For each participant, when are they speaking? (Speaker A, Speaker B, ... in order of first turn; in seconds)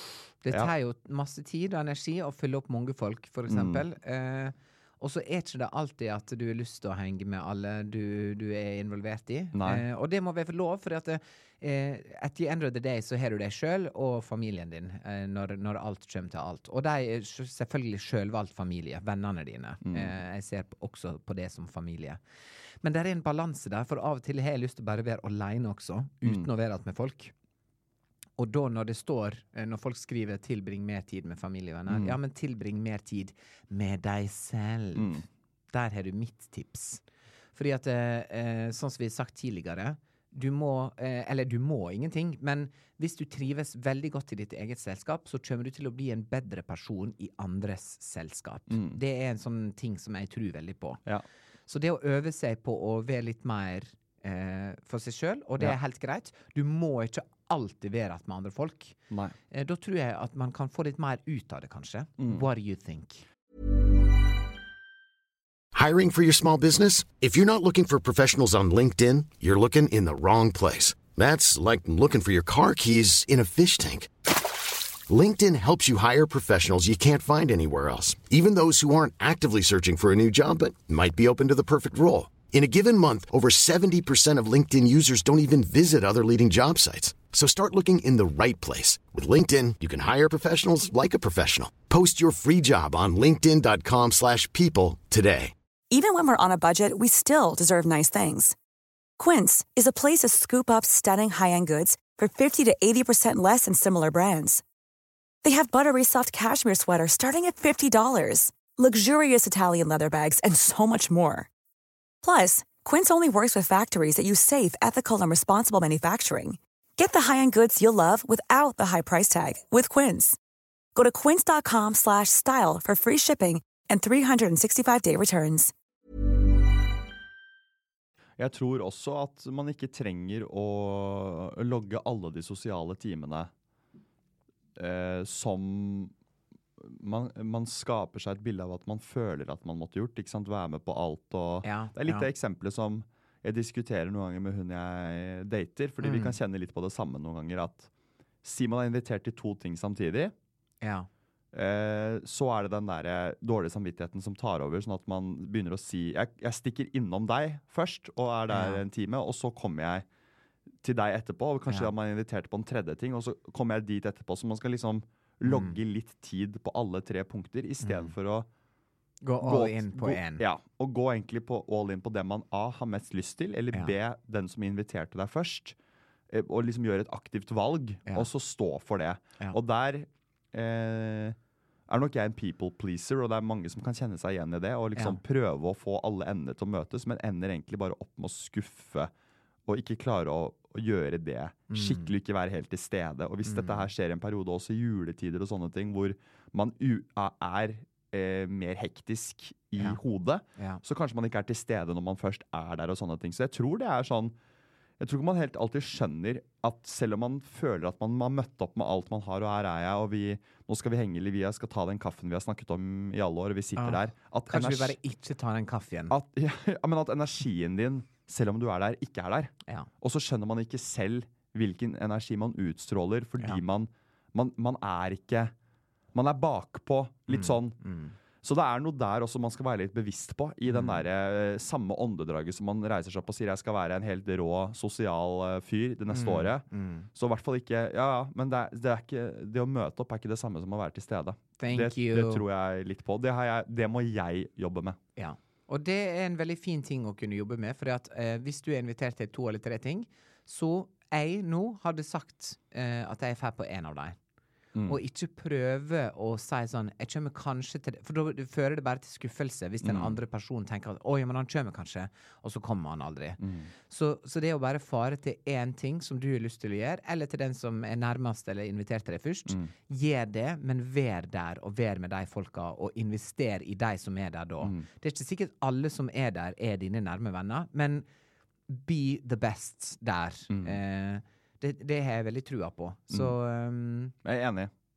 Speaker A: 0.4-22.2, 22.8-27.3, 28.4-37.0, 37.5-51.0, 51.7-59.0, 59.5-63.2, 141.6-142.3, 146.0-146.4, 150.8-151.1, 158.5-158.8, 165.4-165.8, 167.8-168.1, 169.2-170.4, 191.7-192.1, 193.4-193.9, 200.6-200.8, 213.8-216.1, 227.3-228.1, 230.7-231.0, 236.1-237.1, 241.6-242.4, 245.2-254.2, 254.8-278.1, 278.7-284.1
Speaker B: 3.5-3.8, 9.5-9.8, 19.8-20.1, 31.9-32.2, 34.9-35.2, 48.7-49.0, 62.2-62.4, 128.4-133.5, 134.8-136.1, 136.8-147.9, 148.4-150.3, 151.5-160.0, 160.8-168.5, 169.4-175.8, 176.3-181.4, 181.9-189.1, 189.7-204.3, 205.0-215.0, 216.1-225.5, 226.1-227.8, 228.4-245.0, 254.7-255.0, 259.8-260.2, 263.4-263.7, 274.6-274.9, 280.5-280.8, 284.2-284.7
Speaker C: 65.7-95.5
Speaker D: 95.9-98.5, 99.2-104.6, 105.4-111.5, 112.2-120.4, 120.9-125.7